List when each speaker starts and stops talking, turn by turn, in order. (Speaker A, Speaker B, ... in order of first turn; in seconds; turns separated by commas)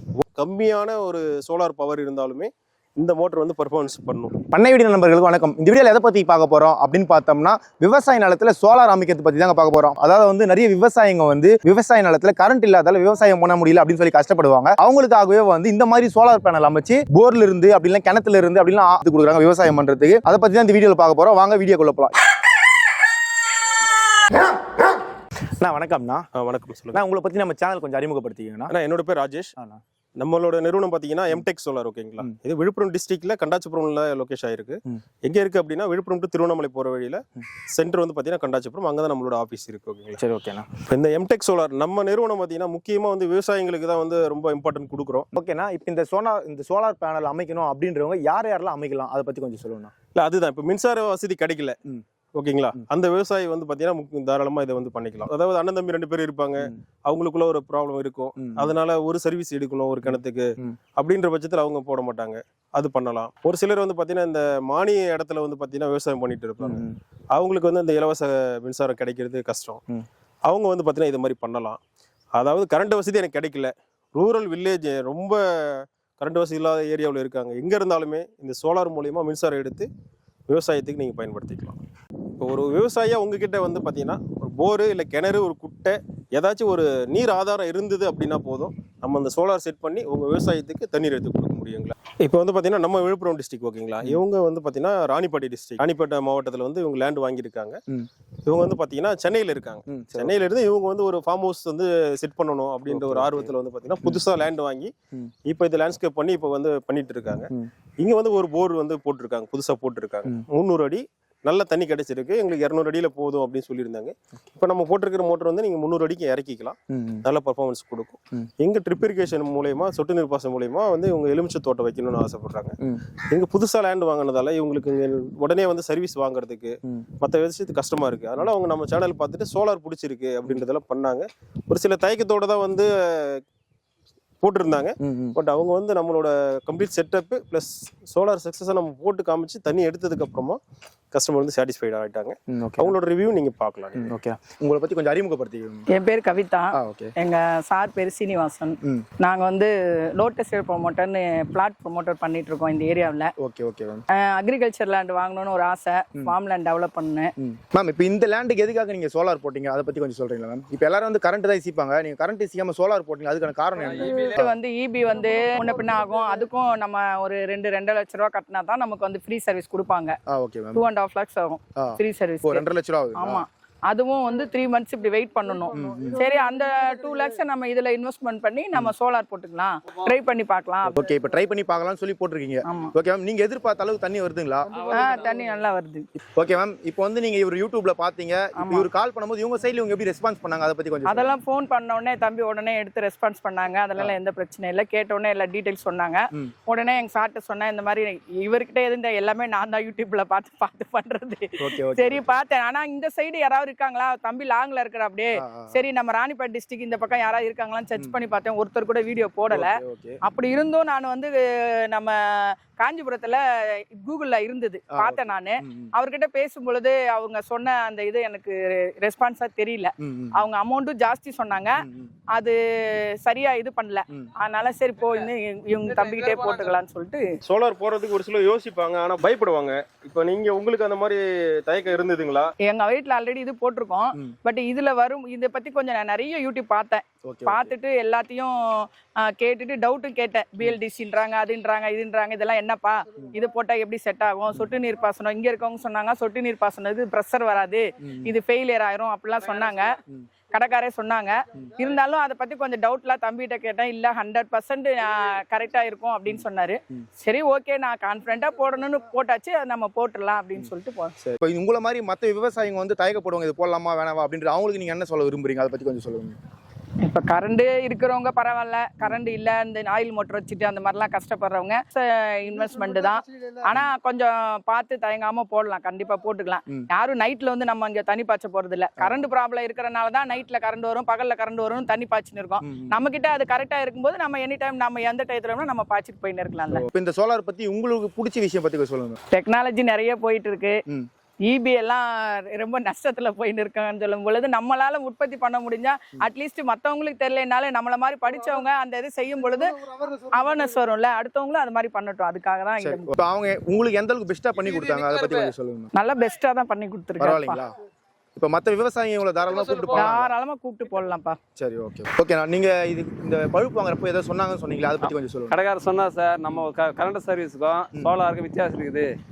Speaker A: 0.2-4.4, Speaker B: 4.5-22.1, Speaker B: 25.6-26.3, Speaker A: 26.4-27.0, Speaker B: 26.9-28.7, Speaker A: 28.7-29.6, Speaker A: 30.2-40.2, Speaker B: 40.2-40.7, Speaker A: 40.9-45.3, Speaker B: 45.3-49.9, Speaker A: 50.2-51.8, Speaker A: 52.4-60.5, Speaker B: 58.4-58.7, Speaker A: 61.0-69.8, Speaker B: 66.6-67.0, Speaker A: 70.5-71.8, Speaker A: 72.4-79.9, Speaker A: 80.5-81.8, Speaker A: 82.4-97.8, Speaker A: 98.5-104.9, Speaker B: 99.9-100.4, Speaker B: 102.9-103.5, Speaker A: 105.5-122.7, Speaker B: 116.9-117.2, Speaker A: 123.3-133.4, Speaker A: 134.4-140.6, Speaker B: 135.0-135.4, Speaker A: 141.1-144.2, Speaker B: 142.5-143.0, Speaker B: 144.0-145.9, Speaker C: 145.9-153.3, Speaker B: 146.8-147.1, Speaker B: 153.4-154.0, Speaker C: 154.1-157.3, Speaker B: 157.4-164.6, Speaker D: 163.8-164.3, Speaker C: 164.2-170.1, Speaker B: 170.3-170.8, Speaker C: 170.7-172.7, Speaker B: 171.8-173.4, Speaker C: 173.2-181.1, Speaker B: 175.8-176.2, Speaker B: 180.9-184.7, Speaker C: 182.7-182.9, Speaker D: 184.7-185.3, Speaker C: 184.9-186.1, Speaker B: 186.4-191.4, Speaker C: 188.6-188.9, Speaker C: 191.1-221.8, Speaker B: 201.6-202.3, Speaker B: 205.4-205.8, Speaker B: 209.5-210.2, Speaker B: 214.9-215.9, Speaker B: 220.0-220.4, Speaker B: 221.8-222.1, Speaker C: 222.3-227.3, Speaker A: 227.4-232.5, Speaker C: 232.6-250.0, Speaker B: 237.3-237.7, Speaker B: 248.0-248.3, Speaker C: 250.5-261.1, Speaker B: 256.3-257.1, Speaker B: 261.2-266.4, Speaker C: 267.0-286.9, Speaker B: 279.0-279.3, Speaker B: 282.6-283.0, Speaker B: 286.7-289.2, Speaker C: 289.3-290.8, Speaker C: 291.5-303.1, Speaker B: 302.8-305.9, Speaker D: 304.8-305.4, Speaker C: 305.9-307.6, Speaker B: 307.2-307.7, Speaker B: 308.4-310.3, Speaker C: 309.9-311.4, Speaker B: 311.6-315.6, Speaker D: 315.0-319.1